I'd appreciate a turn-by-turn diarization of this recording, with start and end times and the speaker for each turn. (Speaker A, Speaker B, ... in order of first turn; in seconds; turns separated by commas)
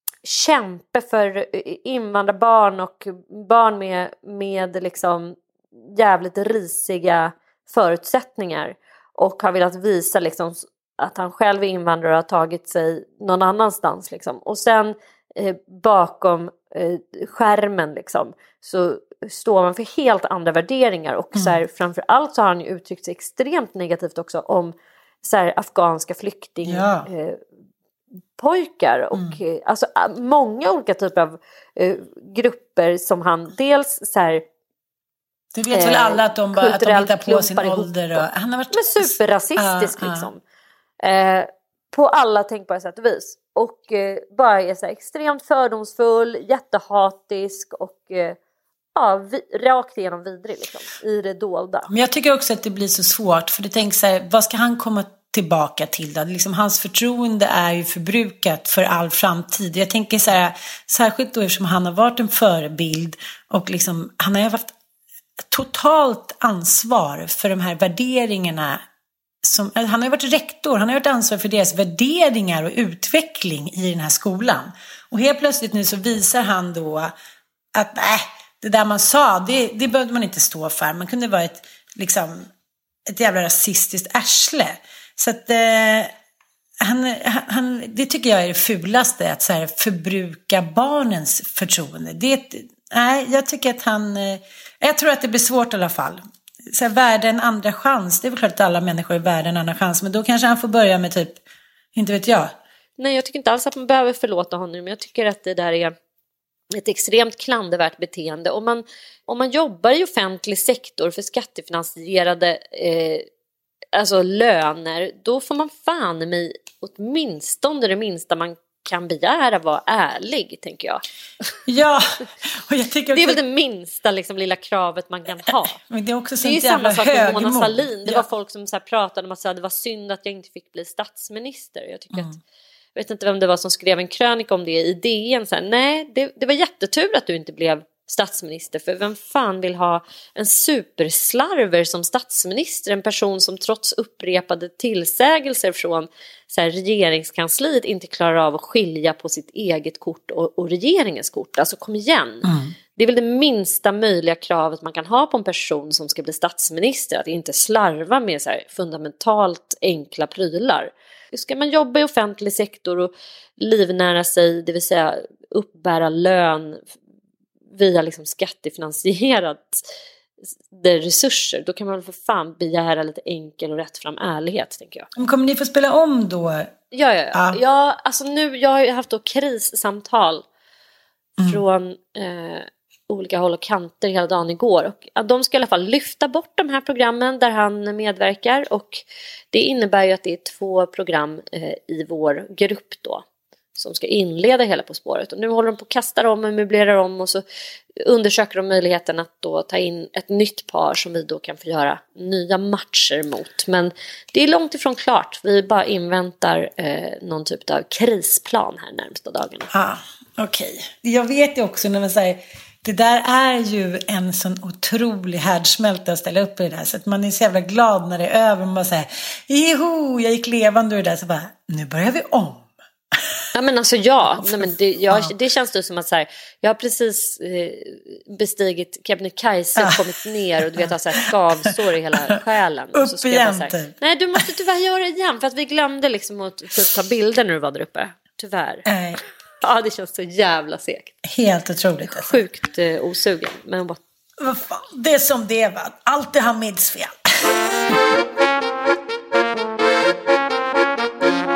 Speaker A: 0.2-27.4, Speaker B: 21.3-21.6, Speaker B: 26.6-27.1, Speaker A: 28.4-34.4, Speaker B: 29.1-29.4, Speaker B: 35.5-40.3, Speaker A: 35.7-40.4, Speaker A: 41.0-48.4, Speaker A: 49.0-51.9, Speaker B: 51.9-64.7, Speaker B: 65.5-68.8, Speaker B: 69.4-77.1, Speaker B: 77.8-82.5, Speaker B: 83.1-86.1, Speaker B: 86.8-101.4, Speaker B: 102.0-102.5, Speaker A: 103.0-105.9, Speaker A: 106.7-113.3, Speaker A: 113.9-121.5, Speaker B: 121.7-123.4, Speaker A: 123.1-125.8, Speaker B: 125.5-128.3, Speaker A: 126.4-132.3, Speaker A: 132.9-166.8, Speaker B: 152.4-152.7, Speaker A: 167.8-169.9, Speaker A: 170.7-175.1, Speaker B: 175.2-176.8, Speaker A: 176.9-180.4, Speaker B: 177.3-177.6, Speaker A: 181.4-193.2, Speaker A: 193.8-197.4, Speaker A: 198.0-209.7, Speaker B: 209.7-223.4, Speaker A: 223.5-238.9, Speaker B: 224.4-225.3, Speaker B: 229.8-230.0, Speaker B: 230.6-231.2, Speaker B: 232.9-234.5, Speaker B: 238.9-239.2, Speaker A: 239.6-241.2, Speaker B: 241.3-242.4, Speaker A: 242.1-244.0, Speaker B: 244.4-248.0